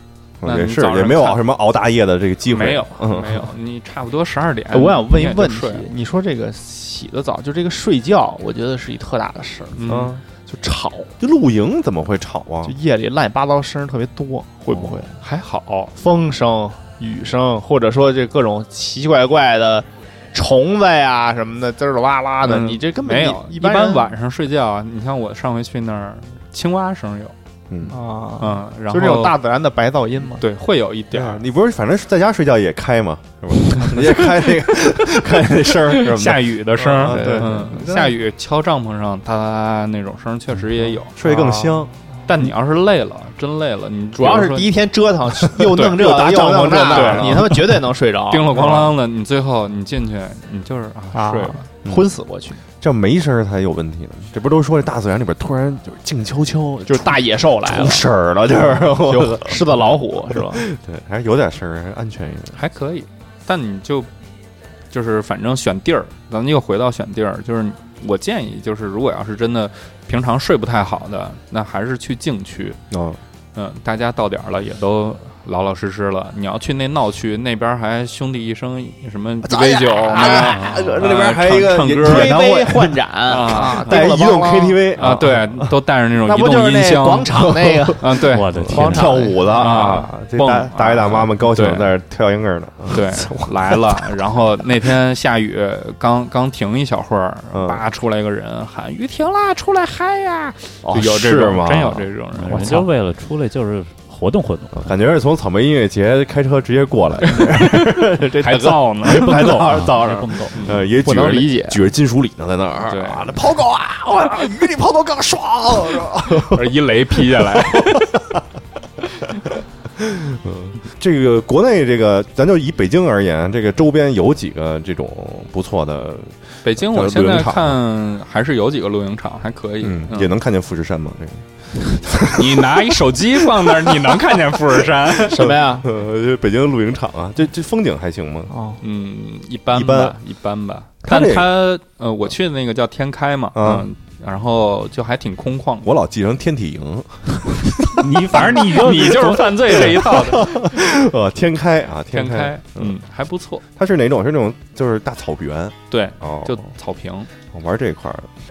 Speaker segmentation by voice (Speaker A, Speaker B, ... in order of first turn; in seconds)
Speaker A: 0.4-3.5, 9.9-10.2, 11.2-12.8, 27.7-28.0, 31.1-38.1, 41.2-41.9, 45.5-47.6, 48.6-48.9, 52.8-62.6, 72.9-73.2, 79.4-85.7, 87.3-87.9, 88.5-93.8, 97.5-97.8, 100.8-102.1, 104.8-116.8, 117.5-118.1, 120.0-127.8, 129.8-134.2, 134.8-138.5, 139.7-140.2, 141.0-141.5, 143.6-143.9, 145.8-148.1, 149.7-152.9, 153.8-156.6, 157.5-158.3
Speaker B: 0.4-1.4, 2.5-5.9, 9.8-10.2, 15.2-15.9, 22.4-27.3, 28.4-29.4, 30.4-31.4, 35.7-41.2, 42.3-44.7, 45.7-46.0, 46.9-47.5, 48.3-51.6, 62.5-64.1, 64.9-72.8, 73.5-82.4, 83.3-84.0, 85.0-87.4, 88.0-88.8, 89.5-91.9, 92.9-102.9, 107.2-109.7, 110.5-110.8, 112.9-113.3, 116.5-118.3, 126.6-130.3, 132.3-135.6, 138.8-145.9, 148.3-150.7, 152.1-153.6, 155.9-157.3
Speaker C: 4.7-9.8, 10.5-11.1, 12.6-15.2, 15.9-24.1, 27.9-30.4, 37.0-38.0, 41.2-41.9, 44.2-48.8, 51.1-52.6, 56.9-58.1, 58.7-60.6, 80.1-80.6, 82.0-84.8, 86.2-90.0, 108.3-111.8, 135.3-135.9, 138.5-138.8
Speaker D: 80.5-80.8, 88.3-89.3, 102.3-104.9, 109.3-110.7, 147.9-149.9